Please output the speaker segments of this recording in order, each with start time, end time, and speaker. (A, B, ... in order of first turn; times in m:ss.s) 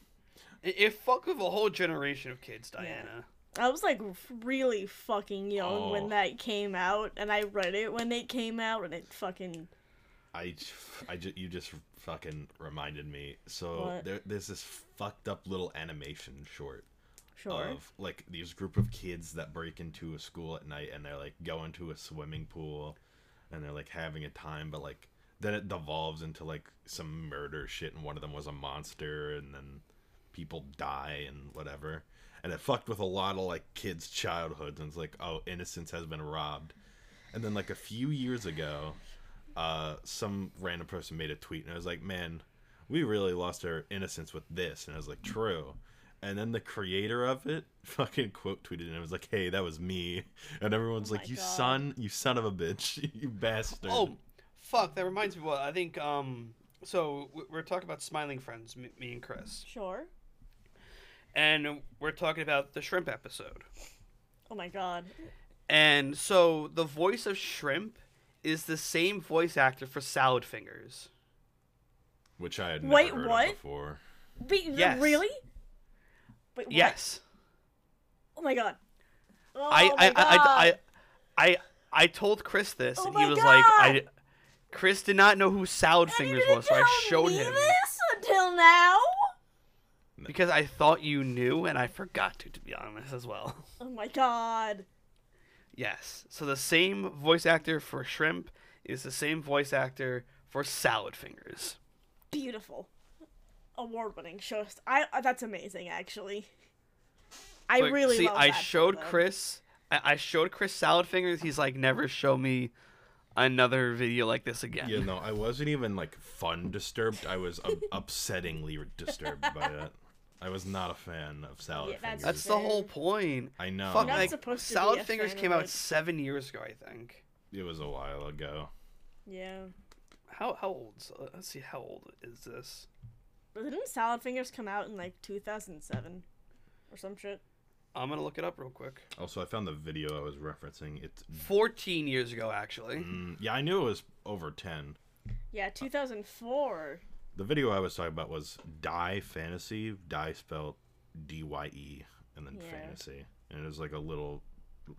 0:00.6-0:03.2 A
0:02.8-0:09.7 B
0:05.6-0:06.2 C
0:10.3-0:16.9 C
0:13.7-0:14.0 B
0:17.4-0:17.8 B
0:17.5-0:23.0 C
0:23.5-0:36.8 C
0:37.3-0:39.0 C
0:39.6-0:54.1 C
0:51.0-0:51.8 B
0:53.8-0:59.7 A
0:59.6-1:00.1 B
1:01.3-1:03.6 A
1:04.5-1:05.1 B
1:05.7-1:11.1 A
1:12.4-1:14.0 C
1:12.8-1:13.6 B
1:14.4-1:15.4 B
1:14.7-1:15.2 A
1:16.5-1:17.0 B
1:16.7-1:17.2 A
1:18.4-1:18.8 B
1:19.5-1:20.8 B
1:19.7-1:20.8 A
1:21.4-1:24.1 A
1:23.0-1:24.0 B
1:24.7-1:27.8 A
1:26.1-1:29.3 B
1:30.3-1:33.7 A
1:33.8-1:34.8 B
1:35.7-1:41.8 A
1:42.3-1:42.9 B
1:43.8-1:46.5 B
1:47.7-1:49.2 B
1:47.8-1:52.7 A
1:53.4-1:55.1 A
1:54.8-2:02.5 C
1:59.4-1:59.7 B
2:01.8-2:02.9 B
2:02.2-2:07.2 A
2:03.6-2:04.4 C
2:04.0-2:05.7 B
2:07.5-2:08.7 C
2:09.3-2:09.7 B
2:10.3-2:12.9 A
2:13.5-2:16.2 B
2:16.9-2:17.4 B
2:17.9-2:19.0 A
2:19.2-2:21.5 C
2:21.4-2:23.1 A
2:22.9-2:25.0 C
2:25.5-2:27.0 B
2:27.3-2:34.4 C
2:32.5-2:33.0 B